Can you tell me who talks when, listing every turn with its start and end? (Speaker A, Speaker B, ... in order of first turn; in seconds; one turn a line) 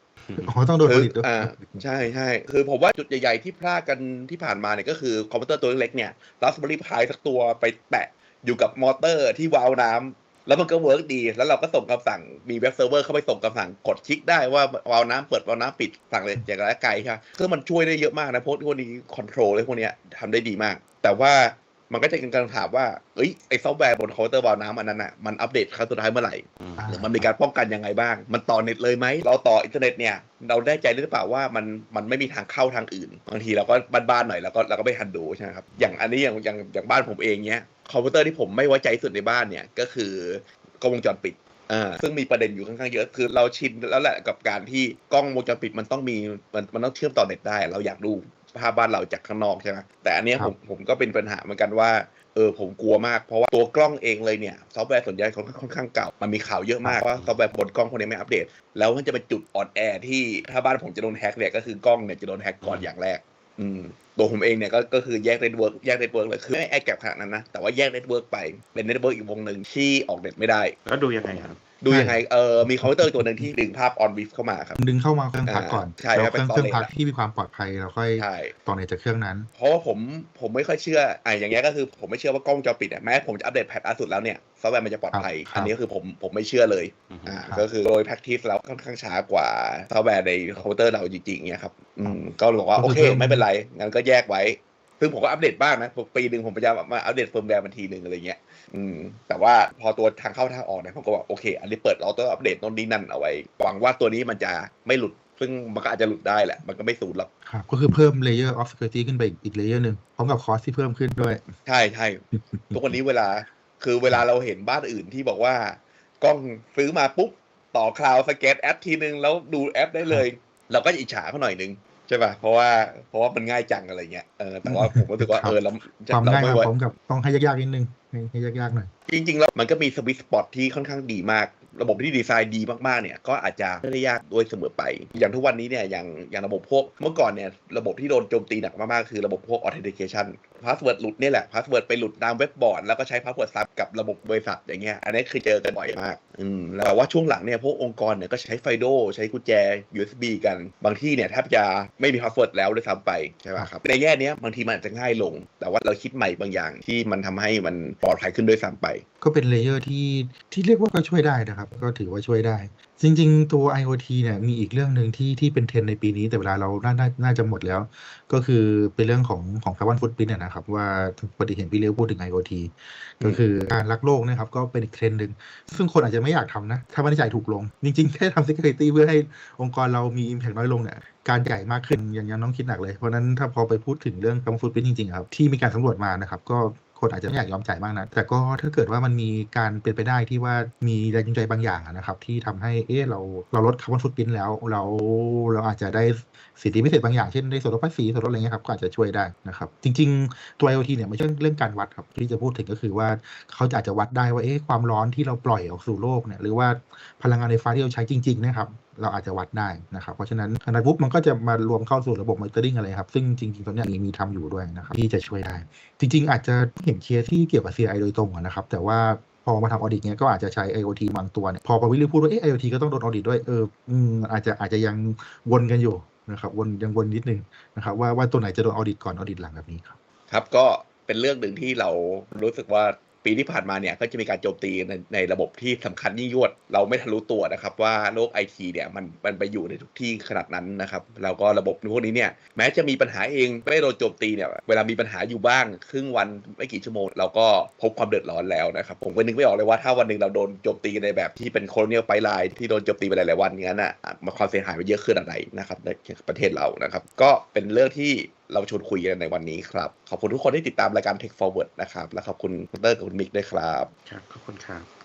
Speaker A: 0.2-0.5
Speaker B: 0.4-1.9
Speaker C: 0.8-74.8
Speaker A: 26.6-27.0
Speaker B: 26.8-27.2
Speaker A: 57.1-57.4
Speaker A: 70.8-71.6
Speaker B: 71.9-72.2
Speaker B: 72.8-73.5
Speaker B: 74.8-79.5
Speaker C: 75.5-76.9
Speaker C: 78.2-78.5
Speaker C: 79.5-107.3
Speaker B: 85.1-85.7
Speaker A: 87.1-87.4
Speaker B: 92.8-93.4
Speaker B: 107.5-111.4
Speaker C: 111.7-126.7
Speaker B: 112.5-112.9
Speaker B: 124.7-125.6
Speaker B: 126.1-128.9
Speaker C: 129.1-159.0
Speaker B: 159.2-230.0
Speaker C: 230.3-263.9
Speaker A: 264.1-264.9